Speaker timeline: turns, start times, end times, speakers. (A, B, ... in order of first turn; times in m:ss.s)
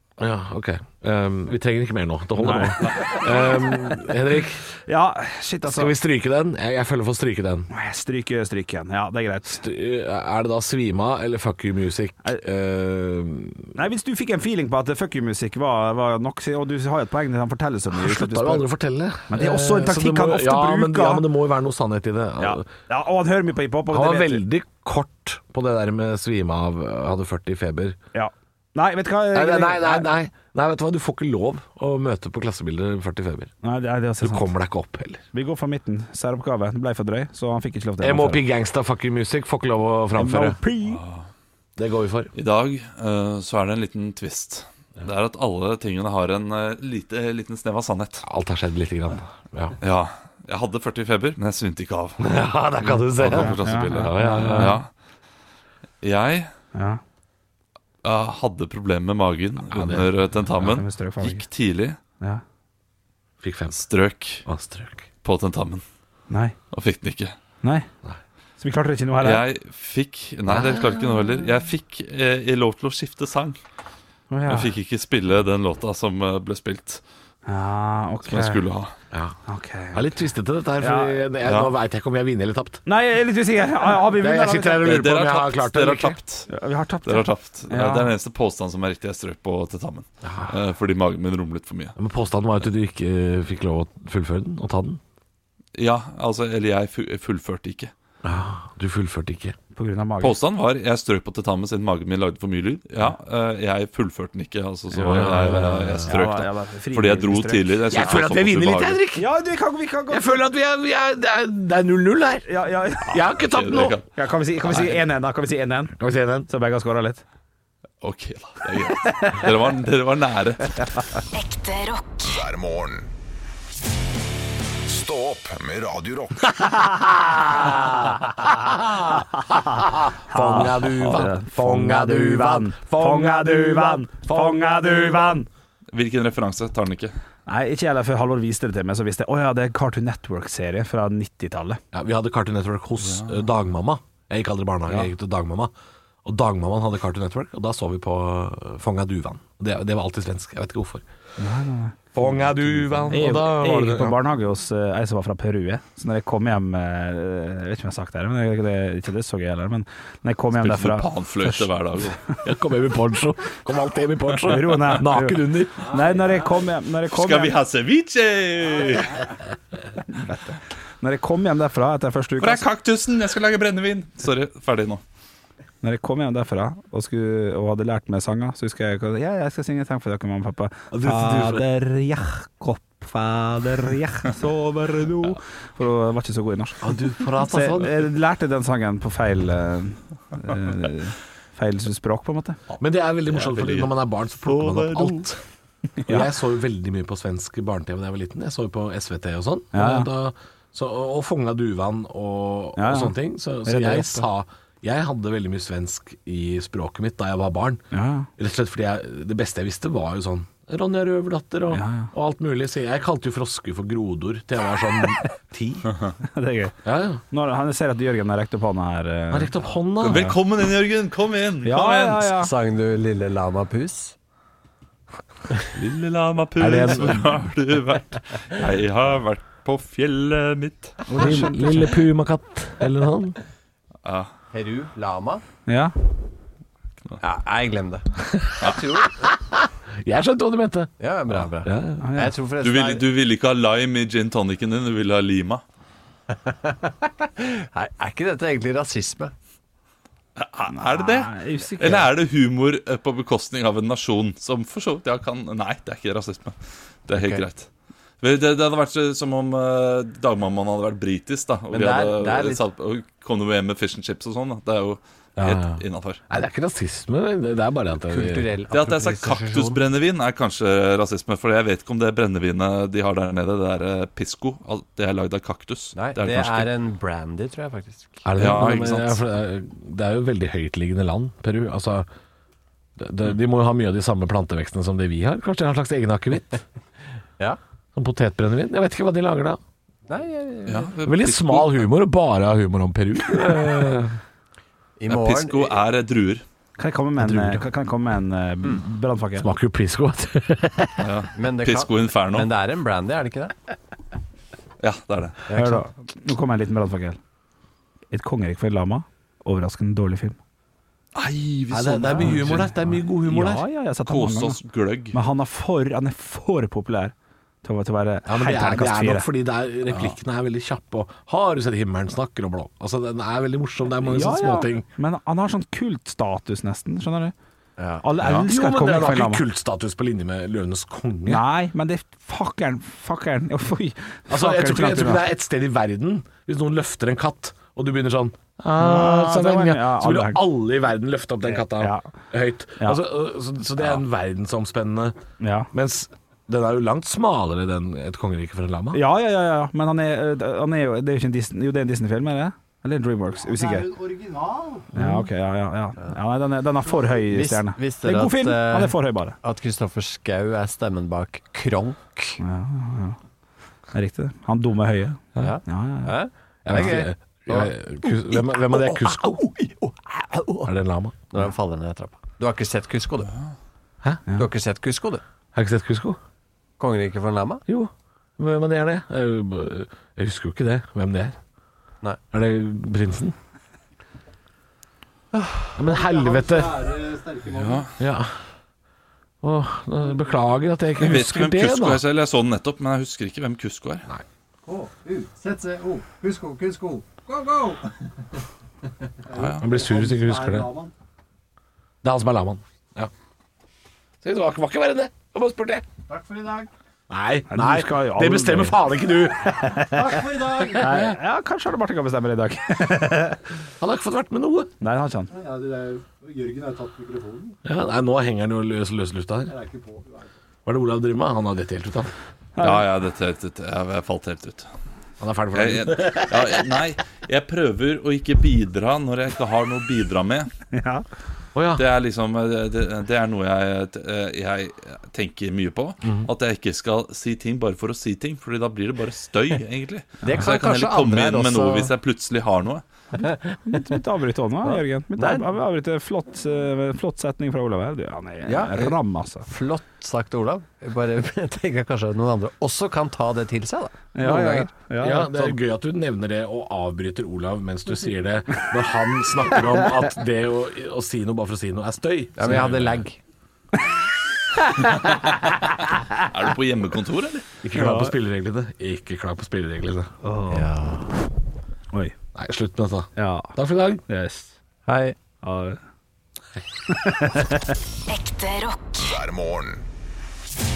0:00.2-0:04.6 A
0:02.4-0:04.0 B
0:04.8-0:05.9 B
0:05.6-0:07.7 A
0:07.7-0:09.6 B
0:09.5-0:13.7 A
0:13.7-0:18.6 B
0:17.9-0:22.7 A
0:19.3-0:21.2 B
0:22.4-0:24.4 B
0:23.9-0:28.0 A
0:28.1-0:30.1 B
0:29.3-0:33.5 A
0:33.6-0:34.5 B
0:34.2-0:35.2 A
0:35.3-0:38.4 B
0:38.0-0:40.6 A
0:40.1-0:41.0 B
0:40.8-0:41.2 C
0:41.8-0:42.3 A
0:42.3-0:48.2 C
0:48.2-0:49.8 A
0:49.8-0:52.2 C
0:52.2-0:54.8 A
0:53.1-0:54.9 C
0:53.2-0:54.8 B
0:56.0-0:56.5 C
0:56.7-0:57.0 B
0:58.0-1:02.0 C
0:59.7-1:00.3 A
1:00.6-1:01.4 B
1:03.4-1:03.8 A
1:03.7-1:04.4 C
1:04.4-1:05.1 A
1:05.2-1:05.8 C
1:06.3-1:06.5 B
1:06.7-1:07.3 C
1:07.6-1:07.9 B
1:08.6-1:09.4 B
1:09.2-1:13.6 C
1:10.5-1:11.0 A
1:14.3-1:14.7 B
1:14.5-1:17.0 C
1:17.5-1:18.6 B
1:18.2-1:18.9 C
1:19.5-1:20.2 B
1:19.9-1:22.8 A
1:20.8-1:21.2 B
1:21.4-1:21.7 C
1:22.8-1:24.9 B
1:24.0-1:26.2 A
1:24.8-1:26.5 C
1:26.5-1:28.1 B
1:27.0-1:31.9 C
1:30.2-1:30.5 A
1:32.0-1:35.0 A
1:35.8-1:37.9 C
1:38.2-1:39.6 A
1:39.7-1:40.4 B
1:40.2-1:49.0 C
1:45.0-1:46.1 A
1:46.1-1:48.2 B
1:47.9-1:49.3 A
1:49.1-1:50.4 B
1:50.1-1:52.4 A
1:52.5-1:53.2 B
1:53.1-1:54.0 A
1:53.4-1:54.1 C
1:54.1-1:55.9 B
1:56.0-1:56.5 A
1:56.5-1:57.2 B
1:58.0-2:00.9 C
1:58.9-1:59.4 B
2:01.3-2:02.2 D
2:02.2-2:03.1 E
2:04.8-2:06.6 E
2:06.7-2:15.3 A
2:09.1-2:15.5 B
2:15.9-2:17.1 C
2:17.5-2:21.8 B
2:21.9-2:25.7 A
2:23.0-2:23.4 C
2:26.2-2:31.0 A
2:31.4-2:32.0 B
2:32.1-2:34.2 A
2:33.1-2:41.5 B
2:40.5-2:42.2 C
2:42.4-2:45.9 A
2:44.4-2:47.6 B
2:47.1-2:49.3 C
2:50.0-2:52.6 B
2:52.4-2:55.0 C
2:55.8-3:12.6 B
3:00.9-3:01.6 A
3:06.8-3:08.0 A
3:12.8-3:15.4 A
3:13.3-3:13.9 C
3:14.4-3:15.3 C
3:16.0-3:16.3 B
3:16.0-3:27.8 A
3:19.7-3:20.1 B
3:22.8-3:24.3 B
3:27.9-3:28.3 B
3:28.4-3:35.8 A
3:31.7-3:32.1 B
3:36.2-3:36.8 B
3:36.8-3:37.2 A
3:37.3-3:40.3 B
3:39.3-3:40.4 A
3:40.0-3:42.3 C
3:41.6-3:42.5 B
3:42.3-3:44.1 F
3:45.7-3:51.0 C
3:46.6-3:47.2 A
3:51.1-3:52.0 B
3:51.2-3:53.4 A
3:54.0-3:54.3 C
3:54.5-3:55.4 F
3:55.7-3:55.9 B
3:57.2-3:58.1 F
3:58.3-4:00.9 A
3:58.6-3:59.2 F
4:01.0-4:03.0 F
4:01.6-4:02.0 A
4:02.0-4:02.3 B
4:02.6-4:05.6 C
4:06.3-4:09.3 F
4:10.4-4:17.7 C
4:10.7-4:12.1 B
4:17.1-4:17.4 F
4:18.2-4:26.2 C
4:21.7-4:22.6 F
4:25.4-4:28.5 A
4:28.1-4:29.8 F
4:28.7-4:36.7 C
4:35.9-4:38.2 F
4:38.2-4:42.1 A
4:38.4-4:39.2 C
4:43.0-4:46.6 A
4:47.9-4:49.6 A
4:50.1-4:50.9 F
4:50.6-4:51.9 C
4:51.0-4:54.2 A
4:55.0-4:55.8 F
4:55.1-4:56.4 C
4:56.8-4:59.5 B
4:57.2-4:57.6 A
4:59.4-5:01.1 A
5:01.0-5:02.5 C
5:01.3-5:03.6 F
5:04.8-5:05.4 C
5:05.5-5:05.8 F
5:05.5-5:07.2 B
5:08.1-5:10.4 B
5:11.1-5:12.7 C
5:11.7-5:13.6 A
5:12.2-5:14.6 B
5:14.0-5:15.2 C
5:15.1-5:19.3 B
5:18.2-5:24.8 A
5:24.0-5:27.3 B
5:27.8-5:28.0 F
5:28.0-5:29.4 B
5:28.2-5:31.4 A
5:31.2-5:35.2 B
5:34.3-5:45.1 A
5:38.8-5:40.4 B
5:41.5-5:42.1 B
5:45.4-5:45.7 B
5:45.7-5:49.0 A
5:48.9-5:53.9 B
5:53.4-5:54.9 G
5:54.9-5:59.4 B
5:57.3-6:02.4 F
6:02.4-6:03.2 B
6:03.9-6:06.1 B
6:05.4-6:10.7 F
6:06.6-6:09.4 A
6:10.6-6:11.2 A
6:11.3-6:13.3 F
6:14.3-6:15.2 F
6:15.5-6:16.2 A
6:16.8-6:17.6 F
6:17.7-6:21.4 A
6:22.3-6:23.3 A
6:25.3-6:25.7 F
6:25.8-6:26.9 A
6:25.8-6:27.9 G
6:27.5-6:27.9 C
6:28.0-6:28.3 A
6:29.4-6:32.0 A
6:30.0-6:30.3 G
6:31.0-6:34.0 C
6:34.6-6:37.9 G
6:39.2-6:40.9 G
6:39.3-6:39.6 C
6:39.6-6:40.7 A
6:42.0-6:43.1 A
6:44.2-6:45.8 A
6:46.1-6:46.7 G
6:47.1-6:49.7 A
6:47.5-6:48.8 B
6:49.6-6:53.4 B
6:49.8-6:51.0 G
6:50.8-6:51.1 A
6:53.8-6:54.7 A
6:54.8-6:55.3 B
6:55.3-6:57.6 G
6:57.6-6:59.5 A
6:59.5-7:00.3 G
7:00.6-7:02.1 A
7:02.6-7:02.8 B
7:02.6-7:04.7 C
7:05.2-7:06.6 A
7:05.5-7:10.5 C
7:10.7-7:11.0 B
7:11.5-7:11.8 A
7:11.8-7:22.8 C
7:16.0-7:16.3 A
7:20.2-7:21.9 F
7:23.2-7:29.4 B
7:23.2-7:23.6 F
7:24.6-7:25.5 F
7:28.4-7:34.7 F
7:34.1-7:35.6 B
7:35.0-7:42.7 A
7:42.4-7:43.2 F
7:42.4-7:43.0 C
7:45.0-7:47.4 C
7:47.6-7:50.1 A
7:47.7-7:48.1 B
7:50.2-7:50.7 B
7:50.5-7:51.1 F
7:52.3-7:54.0 A
7:53.2-7:53.5 B
7:54.1-7:54.6 B
7:54.8-7:55.2 F
7:55.4-7:55.8 B
7:56.9-7:57.7 B
7:58.1-7:59.2 D
7:59.0-7:59.8 E